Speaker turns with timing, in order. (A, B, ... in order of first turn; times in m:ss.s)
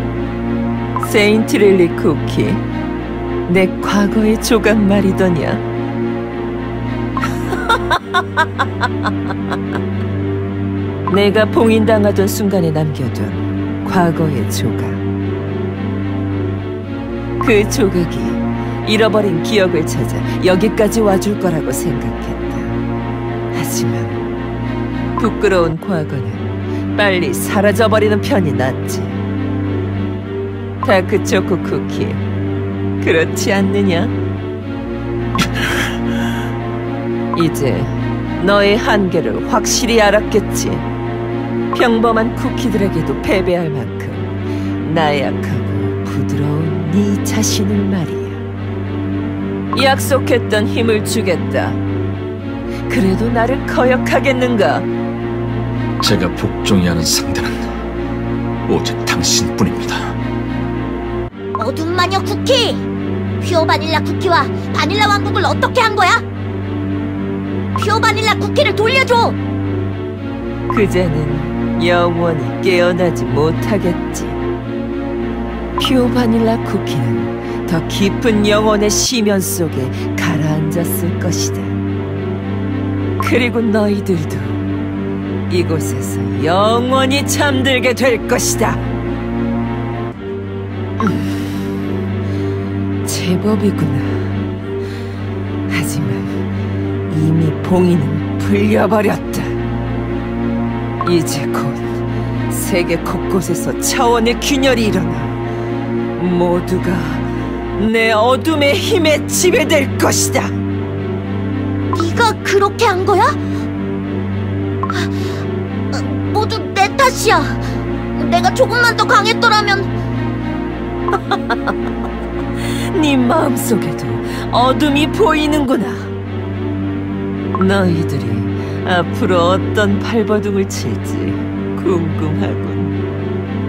0:01.0-0:02.6 A
0:03.5-0:05.6 A
0:07.5-0:09.1 A
0:11.1-0:15.0 A
0:17.4-0:22.8 A
0:23.5-0:24.2 A
0:25.2-0:29.2 A
0:30.8-0:32.2 A
0:33.0-0:34.1 A
0:37.3-0:40.9 A
0:41.7-0:48.4 A
0:49.7-0:51.8 A
0:52.9-0:54.9 A
0:56.0-0:57.7 B
0:58.7-1:00.2 B
1:01.6-1:02.9 C
1:03.4-1:06.2 C
1:07.8-1:09.4 C
1:10.7-1:14.4 A
1:15.8-1:21.8 A
1:23.2-1:24.6 A
1:25.5-1:28.8 A
1:31.0-1:31.4 A
1:33.0-1:34.4 A
1:35.7-1:36.4 A
1:37.1-1:39.6 A
1:41.0-1:45.4 A
1:46.2-1:50.6 A
1:51.9-1:53.4 C
1:54.9-1:55.2 C
1:55.9-1:57.6 C
1:58.2-1:59.9 C
2:01.1-2:01.7 A
2:02.6-2:06.1 A
2:07.5-2:13.0 A